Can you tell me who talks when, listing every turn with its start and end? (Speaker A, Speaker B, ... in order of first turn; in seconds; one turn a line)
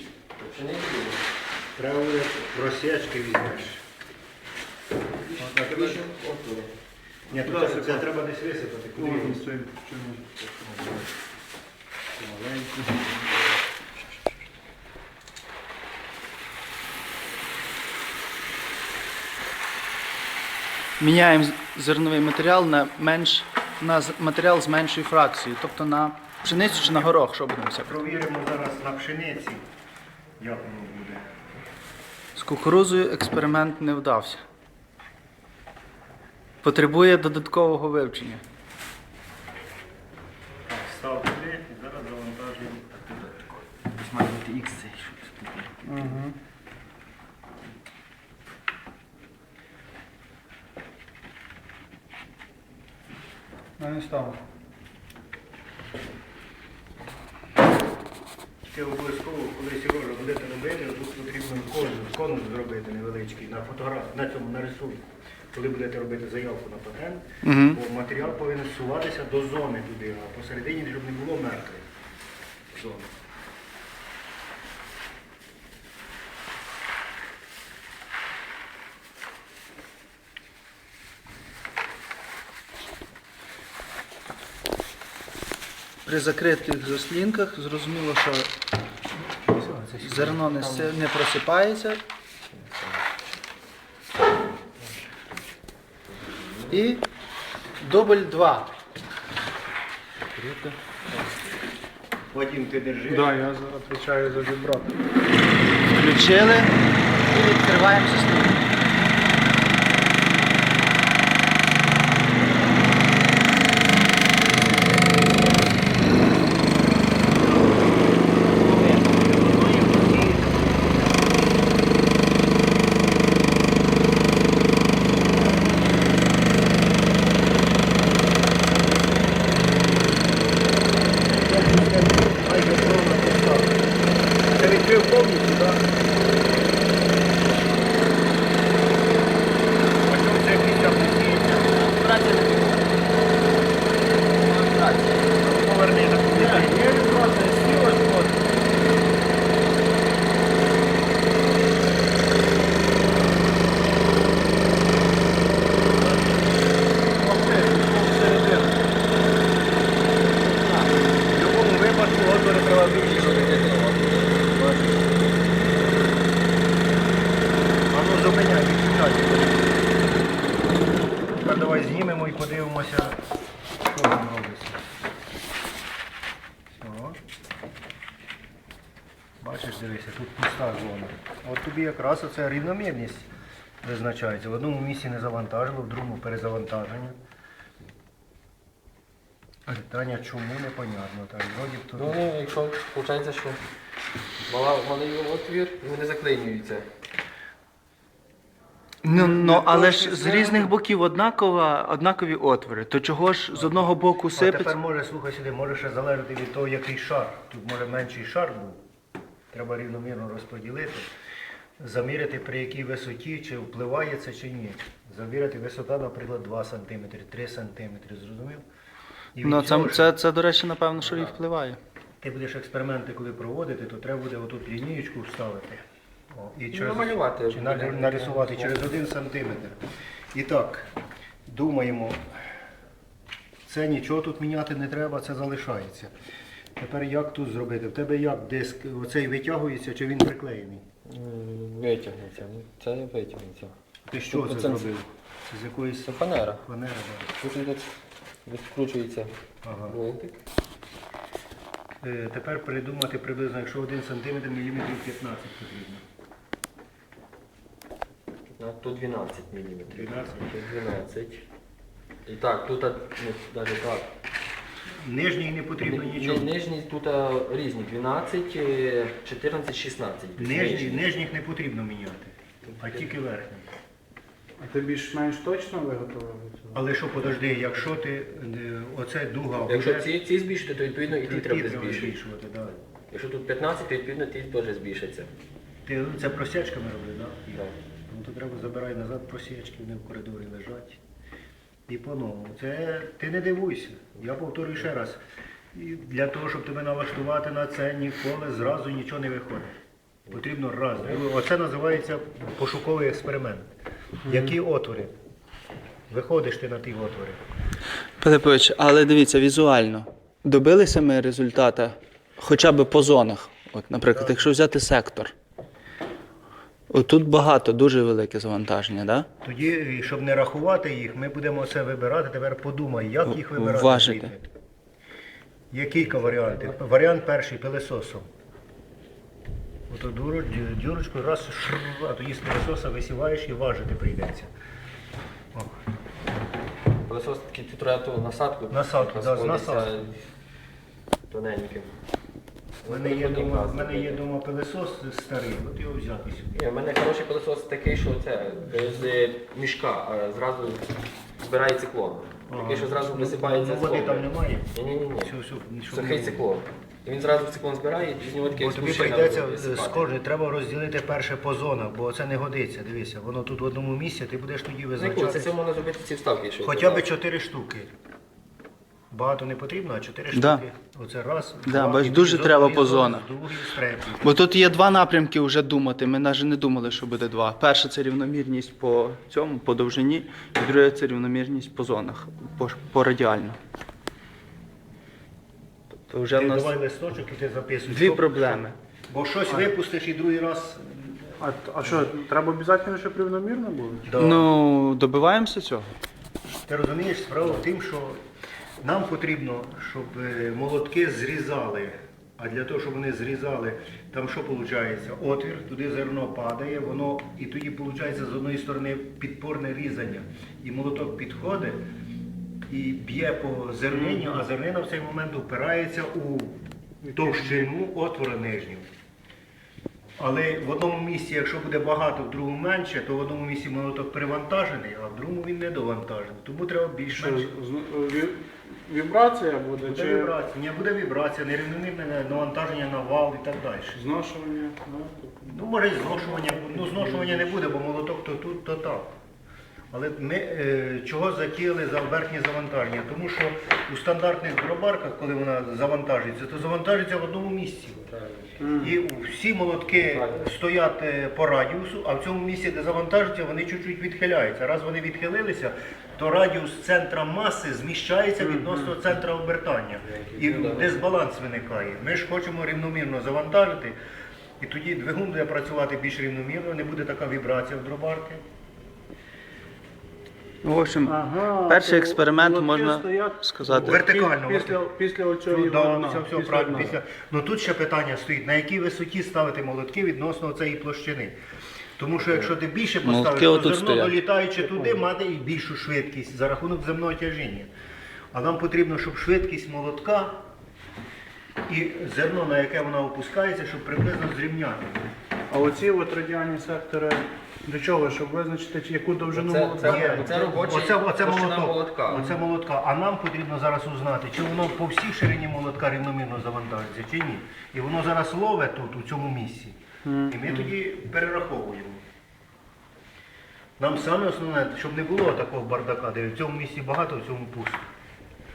Speaker A: 0.4-1.2
Speaker B: 1.8-3.8
Speaker A: 5.3-6.7
Speaker B: 5.4-6.0
Speaker A: 7.3-8.1
Speaker B: 7.3-9.4
Speaker C: 9.0-10.4
Speaker B: 10.6-11.1
Speaker B: 12.2-13.3
Speaker D: 21.0-27.9
Speaker B: 27.8-29.6
Speaker B: 30.4-31.2
Speaker D: 32.4-34.4
Speaker D: 36.6-38.4
Speaker B: 40.7-43.3
Speaker A: 43.9-46.1
Speaker C: 45.8-46.4
Speaker C: 53.8-54.4
Speaker B: 58.7-71.9
Speaker D: 67.4-67.8
Speaker B: 72.7-73.1
Speaker D: 86.1-88.5
Speaker B: 89.2-90.5
Speaker D: 90.0-92.0
Speaker A: 90.6-91.0
Speaker A: 92.5-93.0
Speaker A: 96.1-96.8
Speaker D: 96.7-97.0
Speaker D: 97.8-98.7
Speaker A: 100.4-100.8
Speaker B: 102.3-103.4
Speaker C: 103.1-105.0
Speaker D: 105.9-106.8
Speaker D: 107.3-108.7
Speaker B: 117.4-121.5
Speaker B: 131.3-133.8
Speaker B: 134.6-135.8
Speaker B: 140.1-141.8
Speaker A: 141.7-143.1
Speaker A: 144.1-145.4
Speaker B: 145.4-146.8
Speaker C: 146.3-148.4
Speaker C: 157.2-158.8
Speaker A: 160.1-161.0
Speaker B: 161.3-163.7
Speaker A: 163.0-164.5
Speaker B: 164.5-165.9
Speaker B: 167.9-169.8
Speaker B: 171.4-173.2
Speaker B: 173.8-174.8
Speaker B: 176.8-177.2
Speaker B: 179.4-183.3
Speaker B: 183.8-187.2
Speaker B: 189.7-192.2
Speaker A: 191.9-193.6
Speaker A: 194.5-196.9
Speaker D: 199.0-204.7
Speaker C: 199.1-200.6
Speaker B: 204.3-208.8
Speaker B: 209.5-211.1
Speaker B: 211.8-218.6
Speaker B: 219.3-220.1
Speaker D: 219.4-221.8
Speaker A: 221.0-221.3
Speaker B: 222.2-225.8
Speaker B: 226.3-229.8
Speaker A: 226.7-228.8
Speaker B: 230.3-230.9
Speaker B: 231.5-232.2
Speaker B: 233.7-236.1
Speaker B: 236.8-240.8
Speaker A: 241.1-243.7
Speaker B: 244.1-246.1
Speaker A: 244.3-244.9
Speaker A: 246.0-246.6
Speaker B: 246.6-247.3
Speaker A: 247.4-247.9
Speaker A: 248.5-249.3
Speaker B: 249.6-250.0
Speaker A: 249.8-250.4
Speaker B: 252.0-256.0
Speaker A: 258.6-261.4
Speaker B: 259.9-260.5
Speaker A: 262.3-264.1
Speaker B: 265.0-266.5
Speaker A: 265.8-271.1
Speaker B: 270.4-273.7
Speaker C: 274.6-276.9
Speaker B: 276.7-280.1
Speaker A: 279.7-282.2
Speaker B: 281.1-282.8
Speaker A: 283.1-285.3
Speaker B: 285.9-291.0
Speaker B: 291.9-295.2
Speaker B: 295.7-299.7
Speaker B: 300.3-303.7
Speaker B: 304.2-305.1
Speaker C: 304.3-304.5
Speaker B: 306.1-307.4
Speaker D: 308.2-315.3
Speaker B: 314.1-314.5
Speaker D: 316.9-319.3
Speaker B: 319.4-324.5
Speaker D: 323.3-324.3
Speaker B: 325.7-328.3
Speaker A: 326.0-326.9
Speaker B: 329.9-334.5
Speaker A: 337.0-340.2
Speaker B: 338.7-339.9
Speaker A: 341.3-341.9
Speaker A: 342.8-344.2
Speaker B: 342.9-346.6
Speaker A: 346.5-350.9
Speaker A: 351.4-355.3
Speaker B: 352.5-356.5
Speaker A: 355.9-360.1
Speaker B: 358.5-365.5
Speaker A: 365.0-367.1
Speaker B: 366.6-367.9
Speaker B: 369.1-374.4
Speaker D: 370.3-370.6
Speaker D: 371.6-373.3
Speaker D: 374.2-383.6
Speaker D: 386.1-386.7
Speaker B: 386.3-391.3
Speaker D: 387.9-388.8
Speaker C: 391.4-394.1
Speaker B: 394.1-394.5
Speaker D: 394.2-395.9
Speaker B: 396.7-398.2
Speaker B: 398.8-411.8
Speaker B: 412.7-416.6
Speaker C: 413.9-414.4
Speaker C: 417.0-417.7
Speaker B: 417.1-418.9
Speaker B: 420.2-427.5
Speaker C: 427.1-430.3
Speaker B: 429.8-434.0
Speaker C: 433.9-437.7
Speaker B: 435.4-439.1
Speaker B: 439.9-448.1
Speaker A: 448.1-448.6
Speaker C: 448.6-449.0
Speaker B: 448.8-464.0
Speaker A: 450.0-450.5
Speaker C: 458.4-458.9
Speaker A: 460.0-461.0
Speaker B: 464.6-468.4
Speaker D: 470.6-474.0
Speaker C: 471.1-477.0
Speaker B: 473.8-474.8
Speaker B: 475.5-481.4
Speaker B: 482.0-487.7
Speaker D: 483.0-484.1
Speaker C: 484.6-485.0
Speaker B: 488.3-490.4
Speaker B: 491.7-495.1
Speaker C: 495.5-500.6
Speaker A: 499.3-502.2
Speaker B: 499.8-509.8
Speaker C: 502.1-502.4
Speaker C: 510.1-510.7
Speaker B: 510.3-512.0
Speaker B: 513.8-517.8